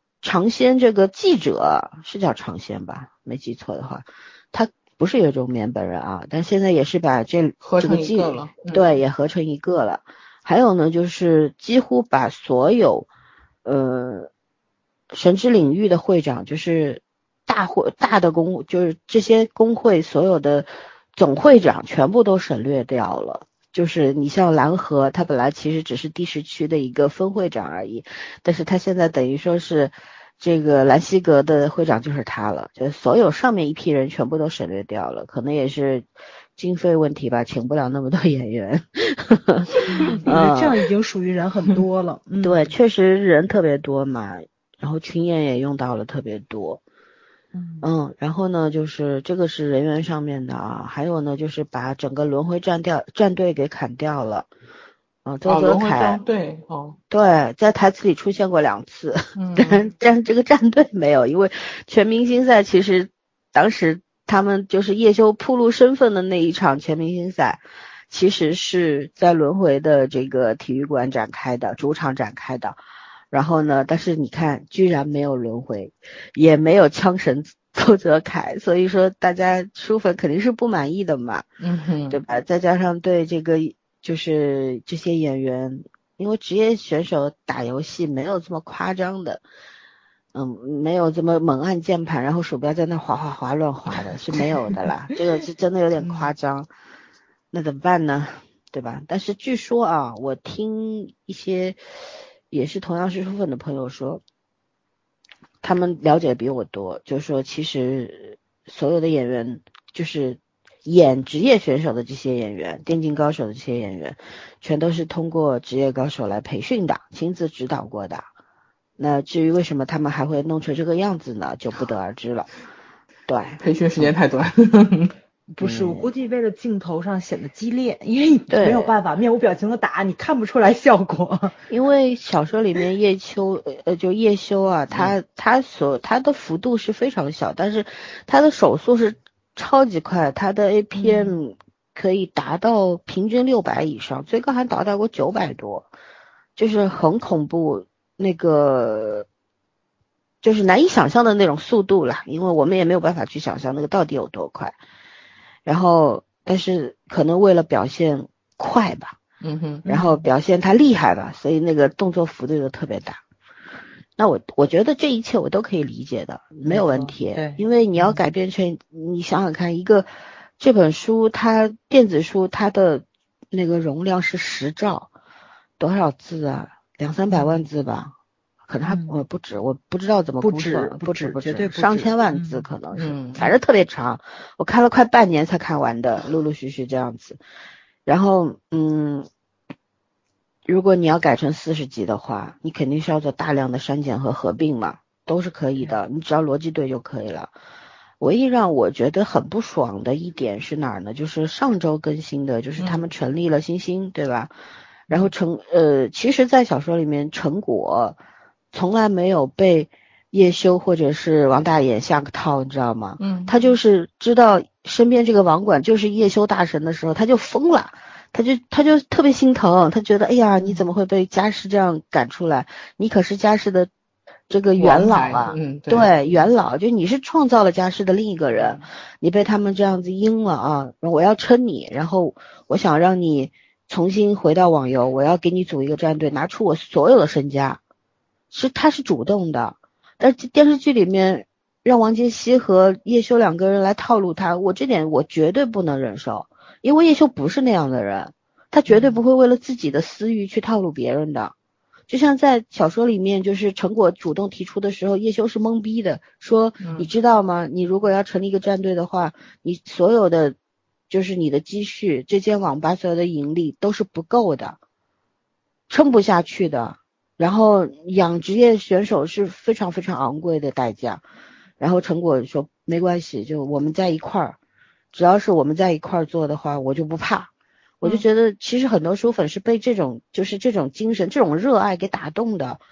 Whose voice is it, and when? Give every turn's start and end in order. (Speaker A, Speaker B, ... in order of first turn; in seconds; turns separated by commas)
Speaker A: 0.2-13.1, Speaker B: 7.6-8.9, Speaker A: 13.6-14.3, Speaker A: 15.1-40.7, Speaker C: 39.9-42.7, Speaker A: 42.4-46.8, Speaker C: 47.5-47.9, Speaker A: 47.8-54.5, Speaker A: 55.2-56.2, Speaker B: 55.5-57.0, Speaker A: 57.1-72.8, Speaker B: 59.4-59.8, Speaker A: 73.3-81.5, Speaker B: 81.6-82.2, Speaker A: 82.1-89.4, Speaker A: 90.3-96.7, Speaker C: 96.0-96.3, Speaker A: 97.5-101.9, Speaker A: 102.5-104.2, Speaker A: 105.6-118.3, Speaker A: 119.0-122.5, Speaker A: 123.3-124.1, Speaker B: 123.6-125.1, Speaker C: 125.5-131.6, Speaker A: 125.6-126.1, Speaker A: 128.5-128.9, Speaker A: 131.7-145.9, Speaker C: 140.9-141.3, Speaker A: 146.6-149.3, Speaker A: 150.4-154.8, Speaker A: 155.7-159.2, Speaker B: 159.4-159.8, Speaker C: 159.8-160.2, Speaker A: 159.8-163.2, Speaker A: 164.2-170.1, Speaker C: 166.7-168.2, Speaker A: 170.6-175.1, Speaker A: 175.8-178.1, Speaker C: 177.3-177.6, Speaker A: 178.7-187.4, Speaker C: 178.8-179.2, Speaker C: 180.4-182.7, Speaker B: 182.9-183.5, Speaker A: 188.1-189.3, Speaker A: 190.7-197.5, Speaker A: 198.2-204.5, Speaker B: 202.8-203.1, Speaker A: 205.1-208.2, Speaker A: 208.7-223.9, Speaker B: 213.2-213.6, Speaker A: 224.5-237.8, Speaker B: 224.8-226.1, Speaker B: 228.6-228.8, Speaker A: 238.5-251.5, Speaker A: 252.1-260.6, Speaker B: 256.8-257.1, Speaker A: 261.1-264.8, Speaker A: 265.9-271.2, Speaker A: 271.8-274.6, Speaker A: 275.1-277.5, Speaker A: 278.0-282.8